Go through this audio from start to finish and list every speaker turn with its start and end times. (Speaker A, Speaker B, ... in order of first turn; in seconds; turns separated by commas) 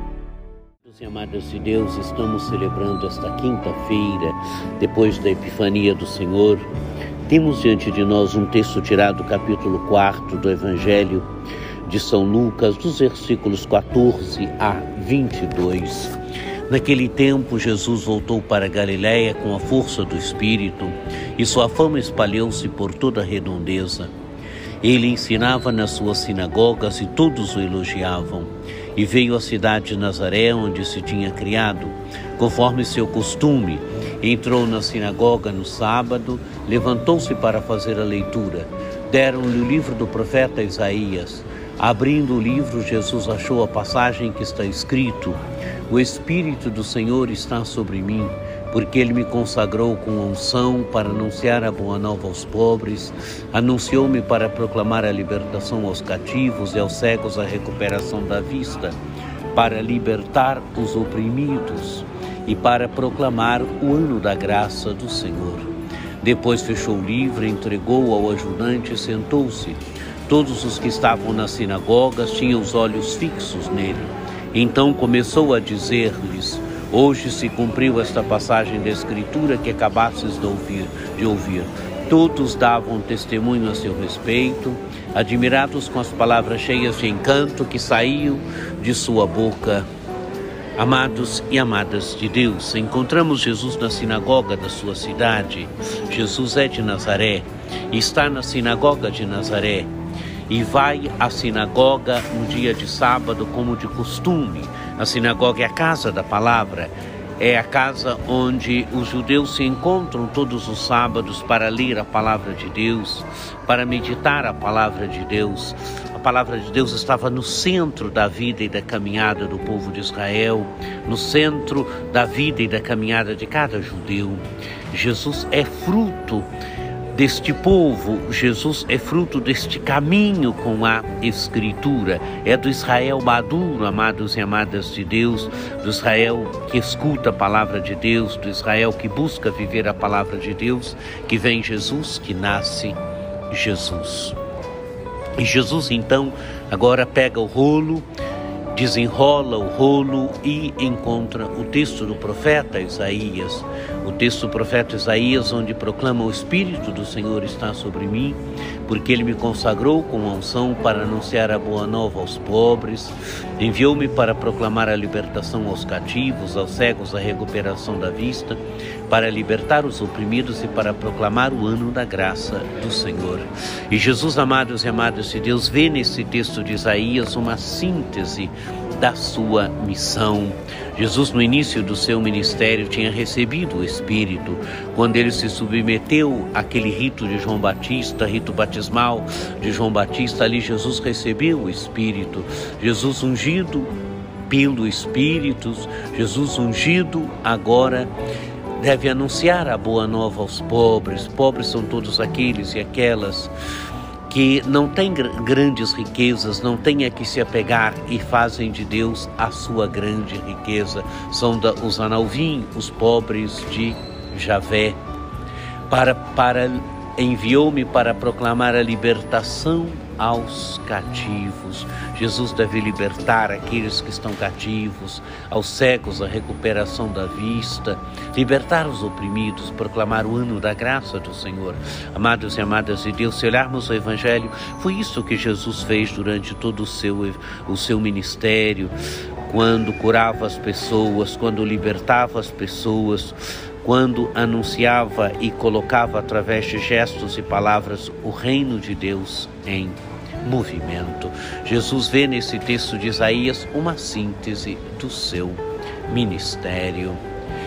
Speaker A: 0.8-6.7, Speaker A: 7.2-11.2, Speaker A: 11.8-16.1, Speaker A: 16.7-24.1, Speaker A: 24.8-59.0, Speaker A: 59.5-65.7, Speaker A: 66.2-89.8, Speaker A: 90.8-99.9, Speaker A: 100.5-126.5, Speaker A: 127.1-143.0, Speaker A: 143.5-144.4, Speaker A: 145.4-148.1, Speaker A: 148.7-193.9, Speaker A: 194.5-198.1, Speaker A: 198.8-203.5, Speaker A: 204.3-215.0, Speaker A: 215.9-238.9, Speaker A: 239.4-257.2